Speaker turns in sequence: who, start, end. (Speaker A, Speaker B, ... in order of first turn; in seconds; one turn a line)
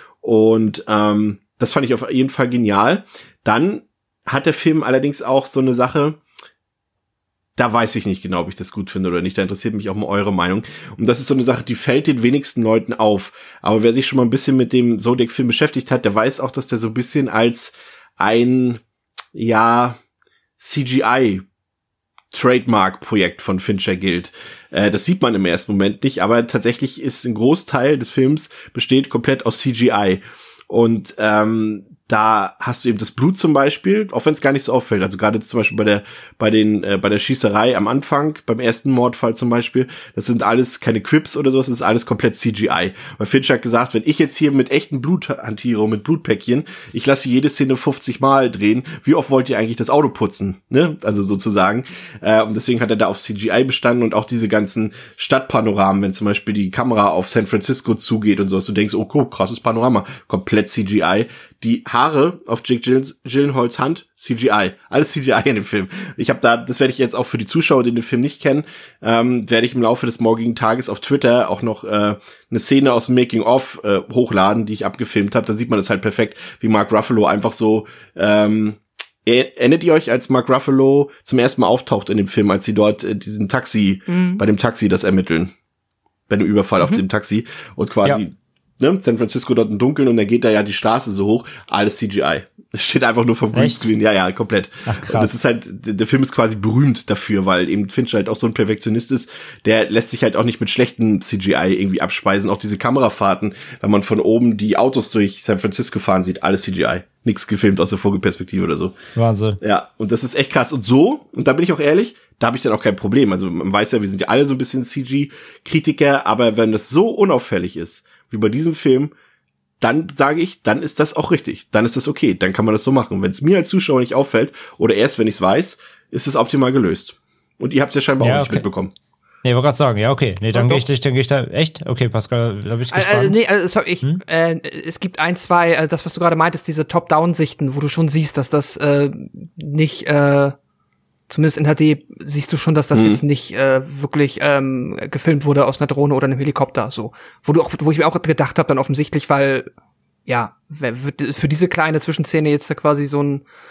Speaker A: 0.2-6.2
Speaker A: 7.5-18.8
Speaker A: 19.3-20.0
Speaker A: 20.6-21.4
Speaker A: 22.3-85.5
Speaker B: 84.1-84.4
Speaker A: 86.3-109.0
Speaker C: 93.5-93.9
Speaker C: 94.8-95.3
Speaker C: 109.2-109.6
Speaker A: 109.6-119.1
Speaker A: 119.8-128.9
Speaker C: 128.2-128.6
Speaker C: 129.4-133.4
Speaker B: 130.5-130.8
Speaker B: 132.9-140.5
Speaker B: 141.3-149.7
Speaker A: 142.9-143.2
Speaker B: 150.3-153.4